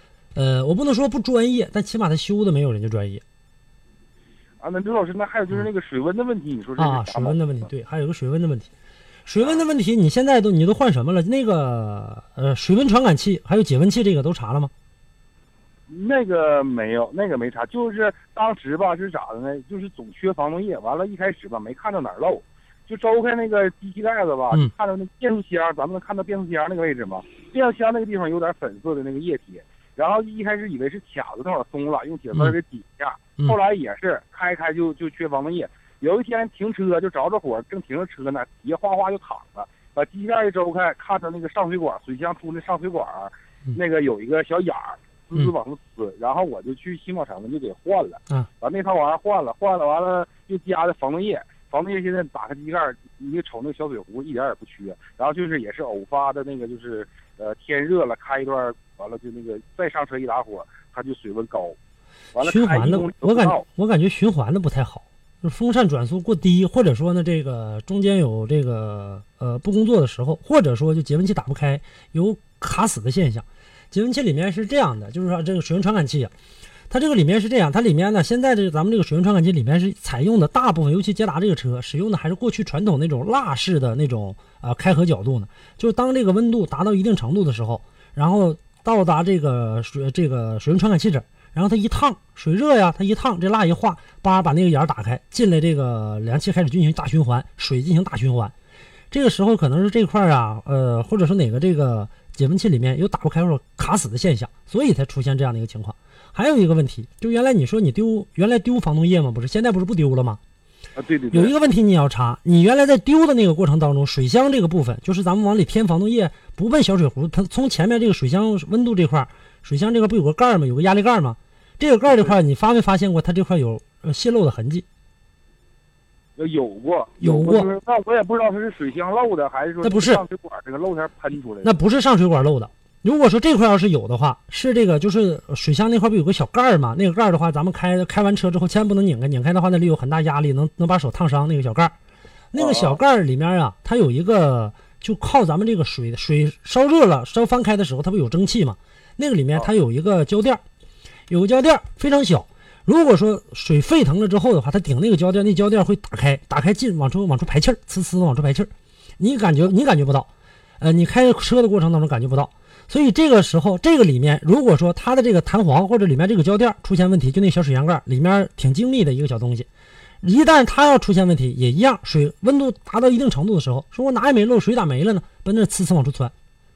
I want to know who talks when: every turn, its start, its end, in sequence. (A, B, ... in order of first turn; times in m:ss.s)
0:00.4-0:03.2 A
0:04.6-0:07.4 B
0:06.8-0:08.7 A
0:09.3-0:14.7 A
0:09.4-0:09.6 B
0:15.9-1:01.8 B
1:02.3-1:03.6 B
1:02.4-1:16.3 A
1:16.9-1:38.5 A
1:39.1-1:50.4 A
1:51.0-1:51.5 B
1:51.3-2:04.8 A
2:06.4-2:11.8 B
2:07.2-2:07.7 A
2:09.8-2:10.2 A
2:11.6-2:21.9 A
2:22.5-2:30.6 A
2:22.6-2:23.0 B
2:31.3-2:49.7 A
2:50.2-2:56.3 A